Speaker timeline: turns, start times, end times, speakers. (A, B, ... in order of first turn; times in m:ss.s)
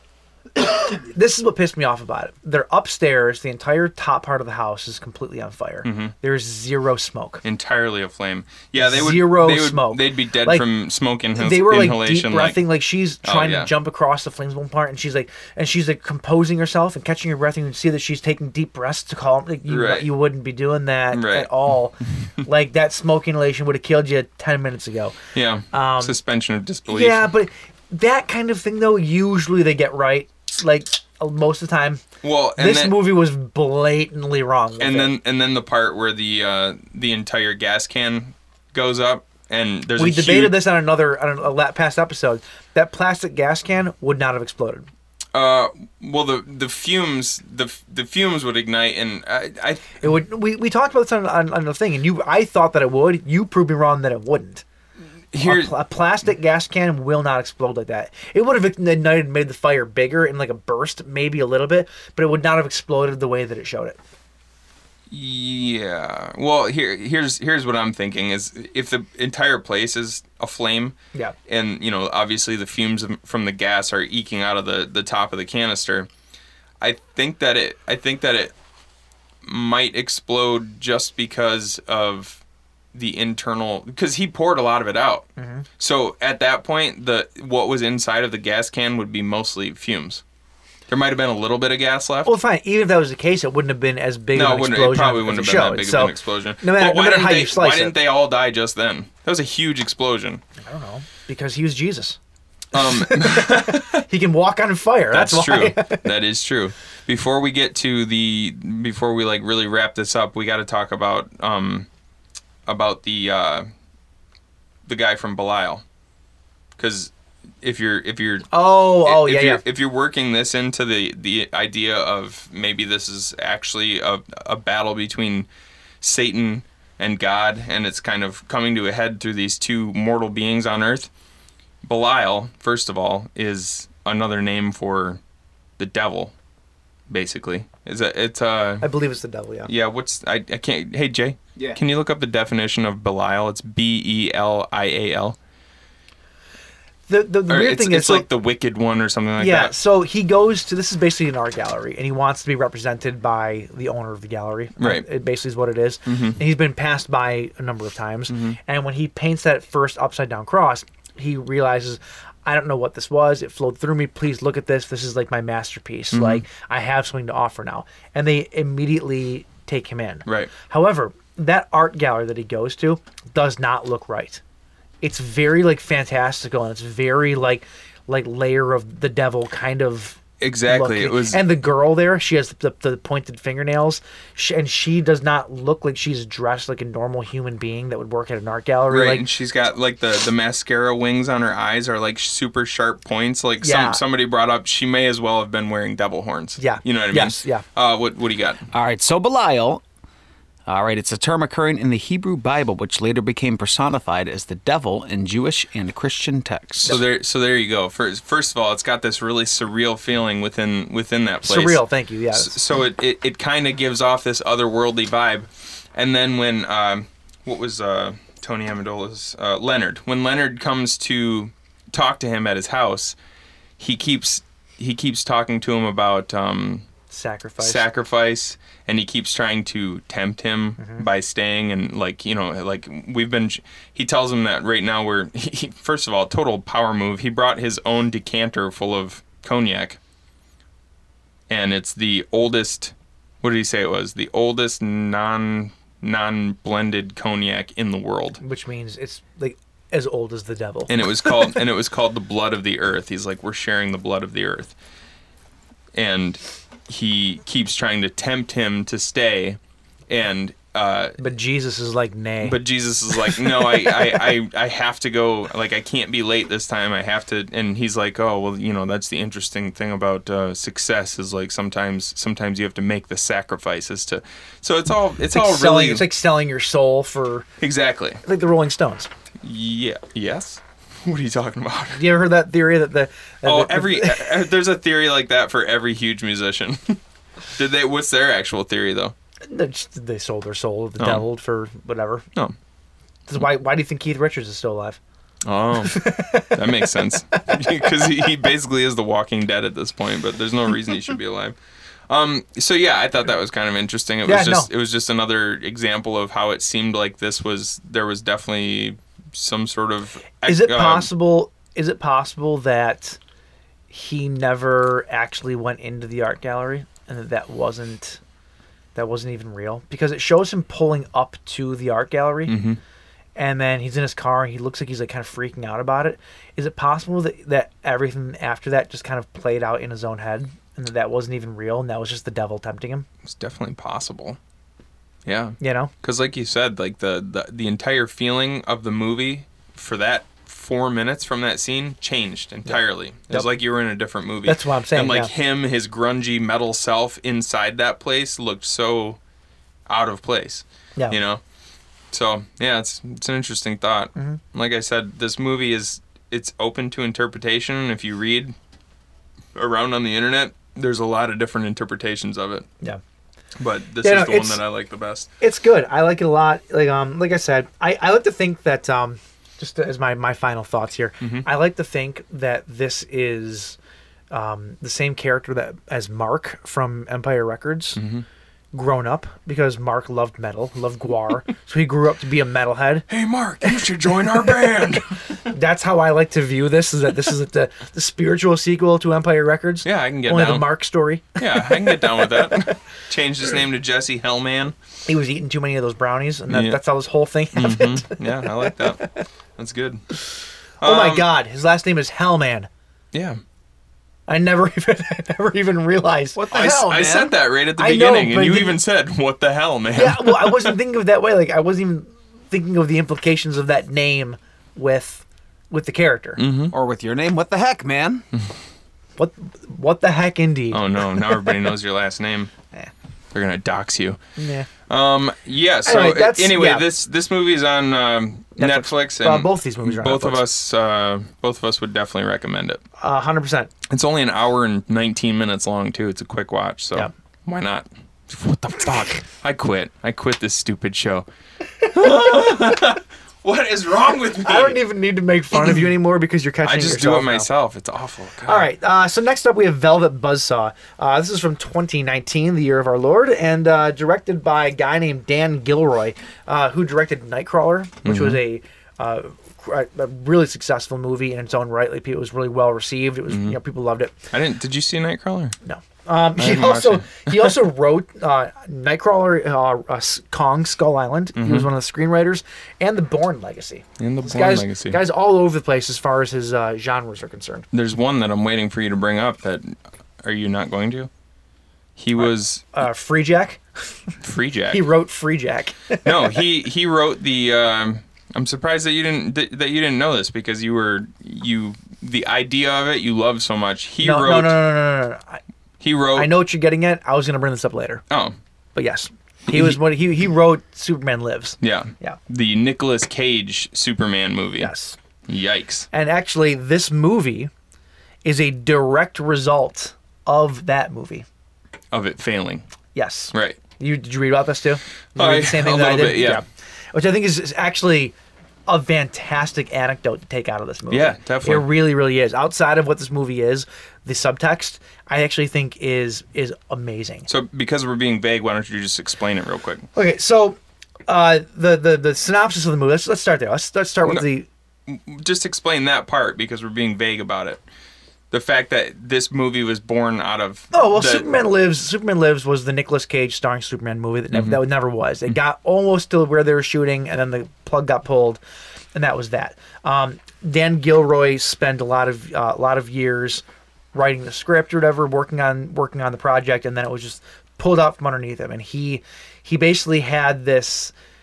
0:00.6-0:07.4 A
0:05.8-0:06.1 B
0:07.4-0:12.6 B
0:08.8-0:10.6 A
0:11.4-0:25.2 A
0:13.2-0:13.7 B
0:19.7-0:20.1 B
0:21.1-0:21.5 B
0:25.3-0:27.2 B
0:25.7-0:26.2 A
0:26.9-0:32.0 A
0:32.2-0:33.0 B
0:32.6-0:35.1 A
0:34.8-0:40.6 B
0:40.0-0:44.9 A
0:45.3-0:50.0 B
0:50.0-0:54.6 A
0:55.3-0:55.7 B
0:55.4-1:04.0 A
1:05.1-1:10.9 B
1:11.5-1:16.1 B
1:16.8-1:18.5 B
1:19.4-1:22.4 B
1:22.9-1:25.3 B
1:25.4-1:25.6 A
1:25.8-1:30.2 B
1:30.9-1:32.3 B
1:32.2-1:37.9 A
1:34.3-1:40.4 B
1:40.6-1:42.2 A
1:42.7-1:44.0 B
1:42.7-1:46.0 A
1:45.1-1:51.9 B
1:52.6-1:53.7 B
1:54.9-1:55.8 B
1:56.8-1:57.1 B
1:57.6-2:05.5 B
1:58.5-1:59.6 A
2:06.0-2:11.1 B
2:11.8-2:15.2 B
2:15.8-2:16.3 B
2:17.1-2:18.8 B
2:18.8-2:19.7 A
2:19.6-2:25.4 B
2:27.1-2:28.3 A
2:27.5-2:29.8 B
2:29.4-2:54.4 A
2:34.8-2:35.0 B
2:36.0-2:36.4 B
2:38.3-2:38.6 B
2:46.1-2:46.4 B
2:50.2-2:50.5 B
2:55.0-3:09.2 A
3:00.4-3:01.4 B
3:08.9-3:18.6 B
3:13.6-3:14.0 A
3:16.6-3:17.6 A
3:18.7-3:19.8 C
3:20.7-3:27.0 C
3:26.8-3:31.8 B
3:31.4-3:32.6 A
3:32.3-3:43.2 B
3:43.8-3:46.8 B
3:47.1-3:47.8 A
3:47.6-4:00.0 B
3:50.8-3:51.0 A
4:01.5-4:08.4 B
4:08.4-4:11.5 A
4:10.9-4:14.7 B
4:15.9-4:21.2 B
4:21.2-4:22.6 A
4:22.4-4:36.0 B
4:23.3-4:24.1 A
4:35.3-4:37.5 A
4:37.6-4:38.2 B
4:38.2-4:39.1 A
4:39.4-4:42.1 B
4:41.9-4:44.5 A
4:43.4-4:47.0 B
4:47.5-4:49.1 B
4:49.5-4:52.2 A
4:51.0-4:51.2 B
4:53.3-4:55.0 A
4:55.4-5:01.5 B
4:55.9-4:56.6 A
5:02.1-5:11.1 B
5:04.2-5:04.7 A
5:10.4-5:13.2 A
5:13.9-5:18.2 A
5:18.9-5:22.6 A
5:22.5-5:22.8 B
5:23.4-5:33.0 A
5:33.2-5:34.4 B
5:35.2-5:49.2 B
5:35.6-5:35.9 A
5:42.6-5:43.5 A
5:44.4-5:45.3 A
5:49.9-5:51.4 B
5:52.1-5:58.5 B
5:59.5-6:02.7 B
6:03.6-6:05.3 B
6:04.0-6:04.6 A
6:05.4-6:13.8 A
6:11.2-6:11.4 B
6:14.3-6:18.0 A
6:18.0-6:18.2 B
6:18.7-6:23.1 A
6:23.1-6:25.4 B
6:23.6-6:32.8 A
6:29.8-6:30.7 B
6:31.4-6:34.7 B
6:35.1-6:39.1 A
6:36.5-6:36.8 B
6:37.5-6:40.0 B
6:40.8-6:41.2 B
6:40.8-6:42.7 A
6:43.1-6:43.4 B
6:44.3-6:47.1 A
6:46.4-6:47.3 C
6:46.5-6:50.8 B
6:47.8-6:48.8 A
6:49.9-6:56.4 A
6:56.4-6:56.7 B
6:56.7-6:58.2 C
6:59.2-7:01.5 A
7:00.7-7:02.5 B
7:03.3-7:04.2 B
7:04.4-7:04.7 A
7:04.9-7:12.8 B
7:05.8-7:06.8 A
7:08.6-7:10.4 A
7:13.0-7:13.7 A
7:13.9-7:21.2 B
7:21.9-7:24.8 B
7:24.4-7:27.5 A
7:25.5-7:25.9 B
7:26.6-7:28.7 B
7:28.4-7:44.1 A
7:38.0-7:38.4 B
7:43.3-7:43.6 B
7:44.3-7:45.5 B
7:45.6-7:57.6 A
7:46.4-7:47.6 B
7:51.4-7:51.7 B
7:54.0-7:55.0 B
7:57.7-8:01.1 B
8:02.0-8:02.7 B
8:02.2-8:04.1 A
8:04.2-8:04.8 B
8:04.7-8:06.4 A
8:06.0-8:14.6 B
8:14.0-8:15.4 A
8:15.8-8:16.3 B
8:16.1-8:18.0 A
8:18.1-8:18.4 B
8:18.7-8:22.2 A
8:19.5-8:19.8 B
8:21.6-8:24.7 B
8:24.6-8:25.0 A
8:25.3-8:25.9 B
8:25.9-8:27.5 A
8:28.2-8:31.2 A
8:31.9-8:32.6 B
8:32.9-8:38.1 A
8:33.3-8:33.6 B
8:35.2-8:36.4 B
8:38.7-8:47.3 A
8:40.9-8:41.7 B
8:47.3-8:49.9 B
8:49.9-8:54.5 A
8:54.9-8:57.6 B
8:58.3-9:01.3 B
9:00.7-9:08.4 A
9:04.3-9:04.6 B
9:08.9-9:13.4 A
9:13.9-9:20.9 A